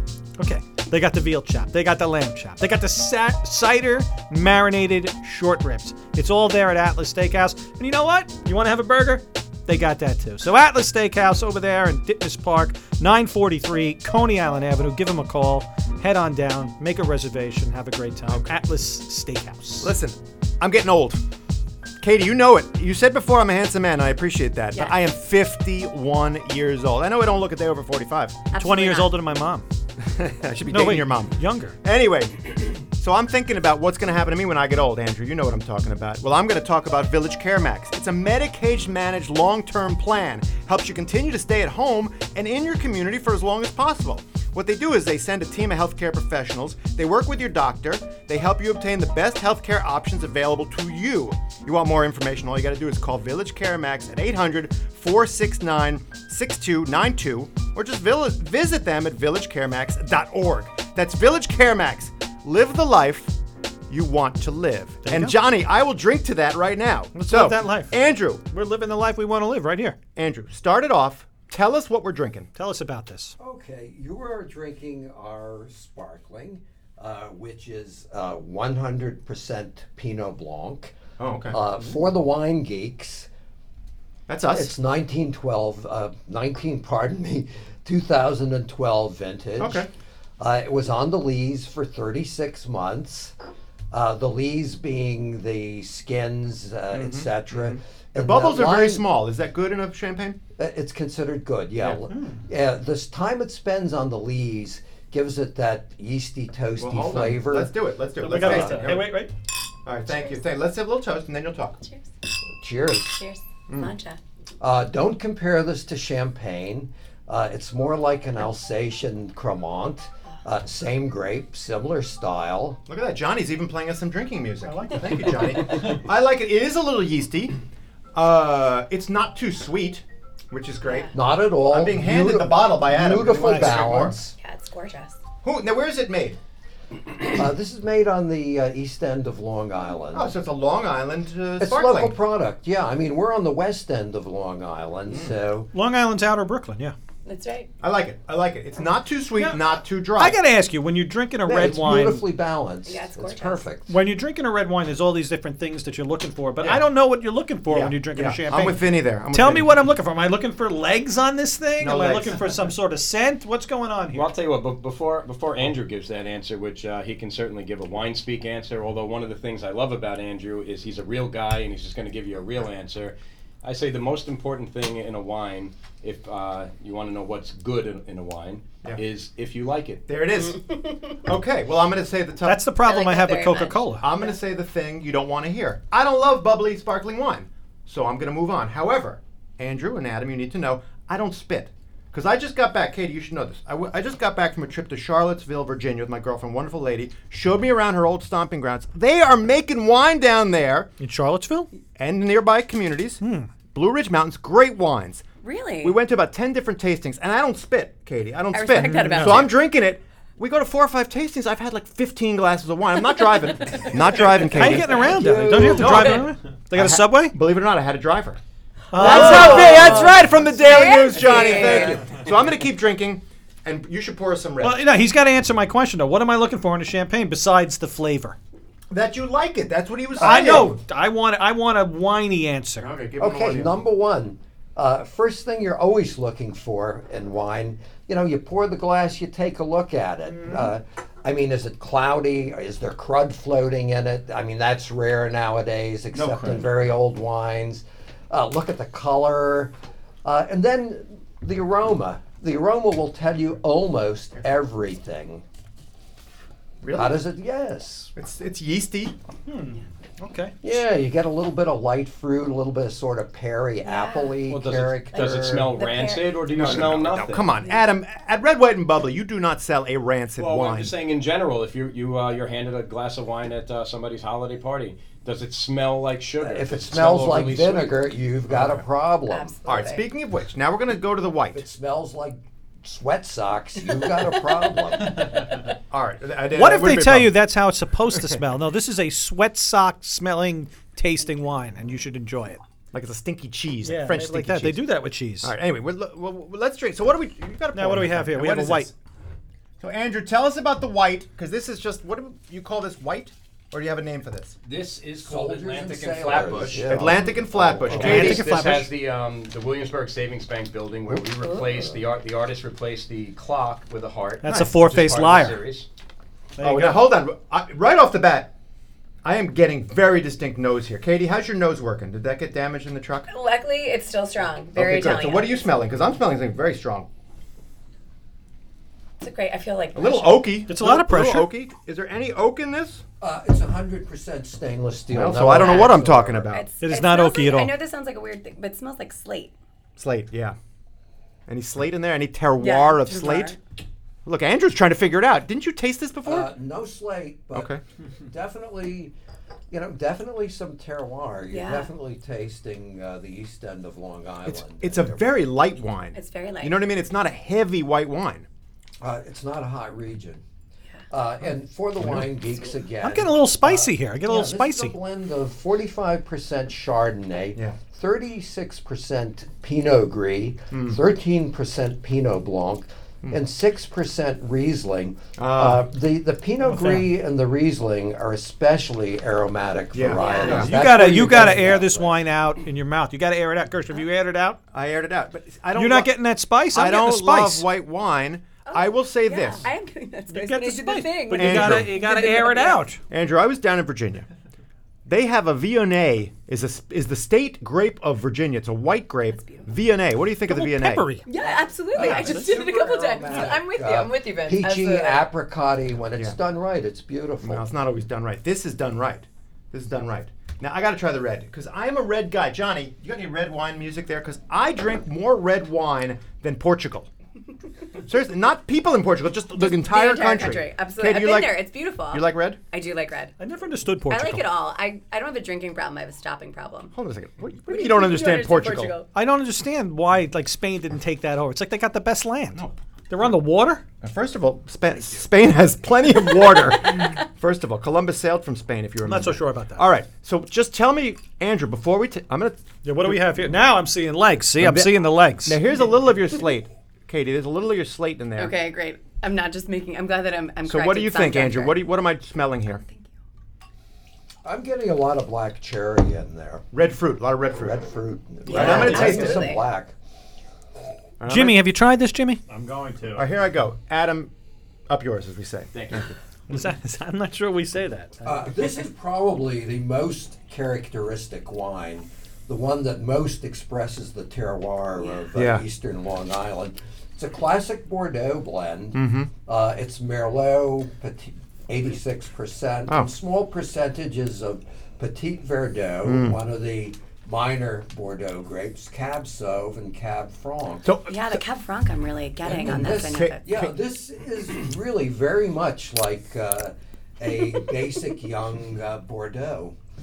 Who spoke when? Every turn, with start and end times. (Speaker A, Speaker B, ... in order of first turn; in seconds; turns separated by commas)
Speaker A: 0.4-19.9, Speaker B: 18.3-18.5, Speaker B: 19.8-21.2, Speaker B: 22.0-28.4, Speaker C: 28.5-29.1, Speaker A: 28.6-29.6, Speaker B: 30.0-63.3, Speaker A: 30.7-31.8, Speaker B: 63.9-68.4, Speaker A: 65.0-65.3, Speaker A: 67.1-67.9, Speaker A: 68.5-70.0, Speaker B: 70.2-72.5, Speaker A: 72.5-73.3, Speaker D: 73.4-80.9, Speaker B: 81.2-81.6, Speaker D: 81.5-83.3, Speaker B: 84.3-84.7, Speaker D: 84.5-89.9, Speaker B: 89.6-89.9, Speaker D: 90.4-93.3, Speaker D: 93.9-99.0, Speaker B: 96.9-100.4, Speaker D: 100.6-107.7, Speaker A: 101.8-102.4, Speaker B: 106.8-109.1, Speaker A: 108.2-109.3, Speaker D: 108.3-108.9, Speaker B: 109.8-111.8, Speaker C: 110.1-110.3, Speaker D: 112.6-113.2, Speaker C: 113.1-114.2, Speaker D: 114.6-122.8, Speaker B: 122.9-127.5, Speaker A: 124.6-125.5, Speaker B: 128.1-131.1, Speaker C: 130.8-131.1, Speaker D: 131.1-134.3, Speaker B: 131.7-134.2, Speaker A: 133.4-133.8, Speaker C: 134.4-135.2, Speaker B: 135.4-136.4, Speaker D: 137.3-140.3, Speaker B: 140.1-142.2, Speaker D: 141.6-145.7, Speaker B: 145.1-145.3, Speaker A: 145.7-146.9, Speaker C: 147.2-147.7, Speaker B: 147.8-150.4, Speaker A: 150.2-152.2, Speaker D: 151.4-153.9, Speaker C: 152.8-153.6, Speaker A: 153.9-164.3, Speaker B: 156.6-156.8, Speaker B: 157.7-159.7, Speaker B: 161.8-162.6, Speaker E: 164.1-180.0, Speaker B: 180.1-182.6, Speaker A: 182.4-184.1, Speaker C: 182.8-184.3, Speaker B: 184.0-200.9, Speaker A: 201.0-201.7, Speaker B: 201.9-205.2, Speaker A: 203.2-203.5, Speaker C: 205.4-206.0, Speaker B: 205.8-218.4, Speaker C: 208.5-209.6, Speaker A: 208.8-209.5, Speaker A: 214.5-217.3, Speaker D: 214.6-216.2, Speaker A: 218.9-220.1, Speaker B: 218.9-224.8, Speaker C: 219.0-222.0, Speaker D: 219.2-220.0, Speaker D: 220.8-222.1, Speaker A: 224.6-228.4, Speaker B: 228.9-230.8, Speaker A: 230.2-232.9, Speaker D: 230.2-230.7, Speaker B: 232.8-233.8, Speaker D: 233.2-255.4, Speaker A: 240.3-240.7, Speaker B: 246.1-246.7, Speaker B: 256.8-257.2, Speaker D: 256.9-258.1, Speaker B: 258.1-259.1, Speaker A: 259.5-260.5, Speaker D: 260.6-265.8, Speaker C: 263.8-264.4, Speaker E: 264.5-267.5, Speaker C: 265.1-266.4, Speaker B: 266.5-270.9, Speaker E: 270.4-278.1, Speaker D: 276.4-279.5, Speaker B: 278.5-278.8, Speaker C: 279.3-280.1, Speaker B: 279.6-281.6, Speaker D: 281.5-285.3, Speaker B: 285.9-287.3, Speaker A: 286.5-292.6, Speaker B: 292.9-294.9, Speaker A: 293.8-295.5, Speaker B: 295.4-298.9, Speaker A: 297.7-298.9, Speaker B: 299.8-304.6, Speaker E: 304.6-307.1, Speaker D: 305.2-308.4, Speaker B: 306.8-308.4, Speaker E: 307.9-315.9, Speaker A: 307.9-308.9, Speaker A: 314.4-315.6, Speaker A: 316.6-317.0, Speaker B: 316.6-318.5, Speaker B: 319.2-323.3, Speaker C: 323.3-325.7, Speaker B: 324.7-327.1, Speaker C: 329.2-330.5, Speaker B: 329.9-333.0, Speaker A: 330.7-331.5, Speaker D: 333.2-336.5, Speaker B: 335.1-336.6, Speaker C: 335.5-336.0, Speaker C: 336.5-339.5, Speaker A: 336.8-337.7, Speaker B: 340.0-340.6, Speaker B: 341.5-343.6, Speaker C: 342.6-343.6, Speaker B: 344.2-346.5, Speaker D: 346.2-347.7, Speaker B: 347.5-347.8, Speaker D: 348.2-349.1, Speaker D: 349.7-355.3, Speaker C: 351.5-351.9, Speaker B: 354.4-358.5, Speaker C: 356.1-356.8, Speaker D: 359.0-360.4, Speaker D: 361.1-382.2, Speaker B: 362.0-362.3, Speaker A: 363.0-364.9, Speaker B: 370.7-371.0, Speaker B: 375.4-375.8, Speaker A: 376.6-377.1, Speaker B: 379.9-380.8, Speaker C: 380.1-380.7, Speaker A: 380.4-384.6, Speaker B: 384.7-386.1, Speaker A: 385.7-387.6, Speaker B: 386.7-389.7, Speaker C: 388.6-392.9, Speaker A: 390.3-393.0, Speaker B: 391.4-391.9, Speaker B: 393.1-394.2, Speaker B: 395.1-401.1, Speaker C: 399.3-399.6, Speaker A: 400.5-401.3, Speaker C: 401.2-405.2, Speaker D: 401.9-407.6, Speaker A: 402.0-402.5, Speaker B: 407.4-417.1, Speaker B: 418.0-421.6, Speaker C: 419.6-423.3, Speaker B: 422.1-422.6, Speaker A: 423.4-424.4, Speaker C: 424.1-426.9, Speaker B: 426.9-428.9, Speaker C: 427.7-429.1, Speaker A: 429.1-433.8, Speaker B: 434.0-443.3, Speaker A: 439.0-439.9, Speaker A: 442.8-445.6, Speaker B: 444.6-448.5, Speaker C: 448.4-451.8, Speaker B: 450.6-452.8, Speaker C: 452.8-453.1, Speaker D: 454.4-456.6, Speaker B: 456.7-457.8, Speaker D: 457.5-459.9, Speaker B: 458.4-459.5, Speaker C: 458.5-459.6, Speaker A: 458.6-459.1, Speaker B: 461.2-461.6, Speaker A: 461.2-463.2, Speaker B: 463.1-464.3, Speaker B: 464.9-466.1, Speaker E: 465.7-466.1, Speaker A: 466.5-468.2, Speaker D: 468.2-490.9, Speaker B: 475.4-475.6, Speaker B: 478.9-479.3, Speaker B: 486.0-486.4, Speaker B: 490.8-491.4, Speaker C: 491.1-493.5, Speaker D: 492.4-499.8, Speaker B: 492.9-493.7